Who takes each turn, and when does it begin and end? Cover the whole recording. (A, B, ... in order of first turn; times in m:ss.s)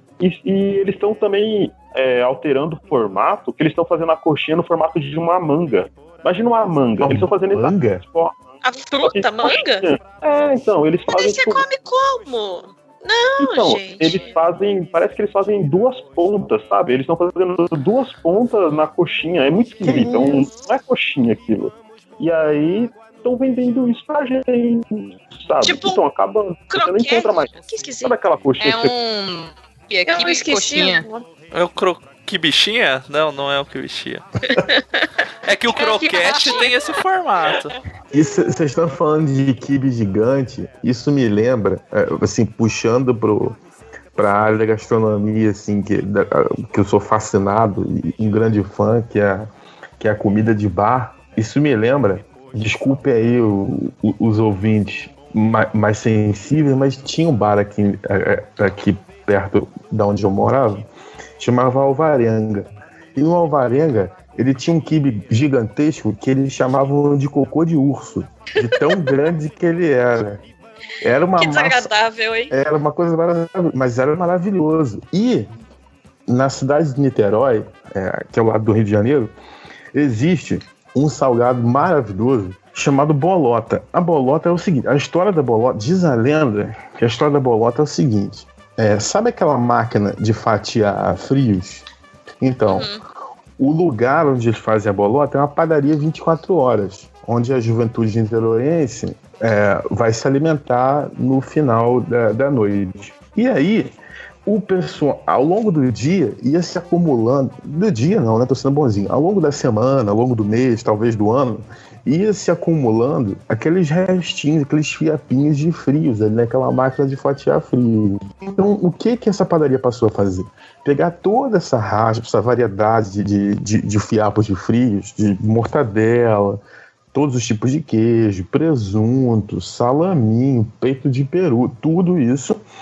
0:00.2-0:08.4 A
0:07.0-0:08.0 B
0:08.6-0:09.8 C
0:09.0-0:11.6 A
0:11.1-0:14.4 C
0:13.4-0:28.9 A
0:19.8-0:20.5 B
0:25.6-0:26.0 C
0:26.7-0:28.2 C
0:28.6-0:31.0 D
0:30.1-0:31.2 C
0:31.5-0:34.2 E
0:34.5-0:35.1 C
0:35.4-0:37.7 E
0:35.7-0:37.0 C
0:38.1-0:43.6 B
0:44.2-0:49.5 B
0:50.0-1:00.9 B
1:01.4-1:10.4 B
1:08.6-1:09.0 C
1:11.0-1:11.9 B
1:11.4-1:12.5 C
1:12.5-1:15.5 B
1:16.3-1:19.3 B
1:19.9-1:31.8 B
1:32.4-1:32.9 B
1:32.7-1:33.0 C
1:33.6-1:43.9 B
1:44.4-2:06.6 B
2:07.1-2:12.6 B